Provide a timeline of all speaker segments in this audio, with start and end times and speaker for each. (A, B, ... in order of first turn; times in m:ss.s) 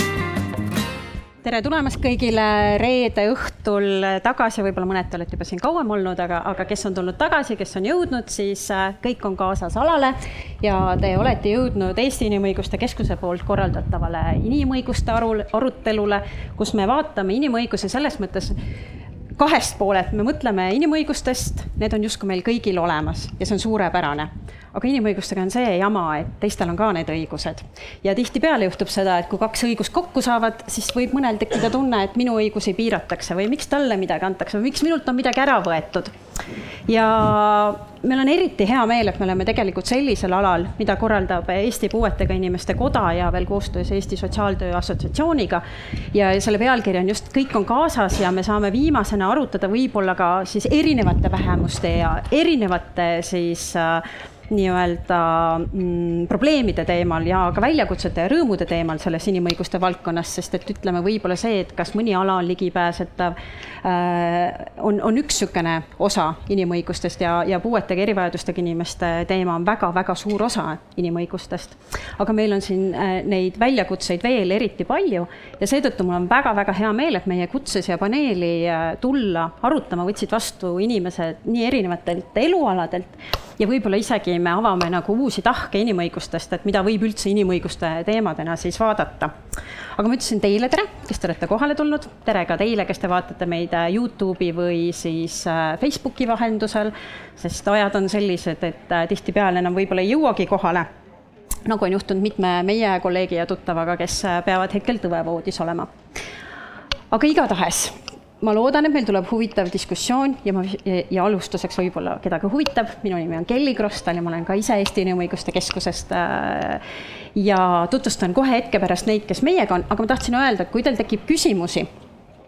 0:01.4-0:18.6 A
0:19.4-0:36.1 A
0:36.9-1:29.3 A
1:30.0-1:40.9 A
1:41.7-1:45.9 A
1:47.1-1:56.8 A
1:57.4-2:01.9 A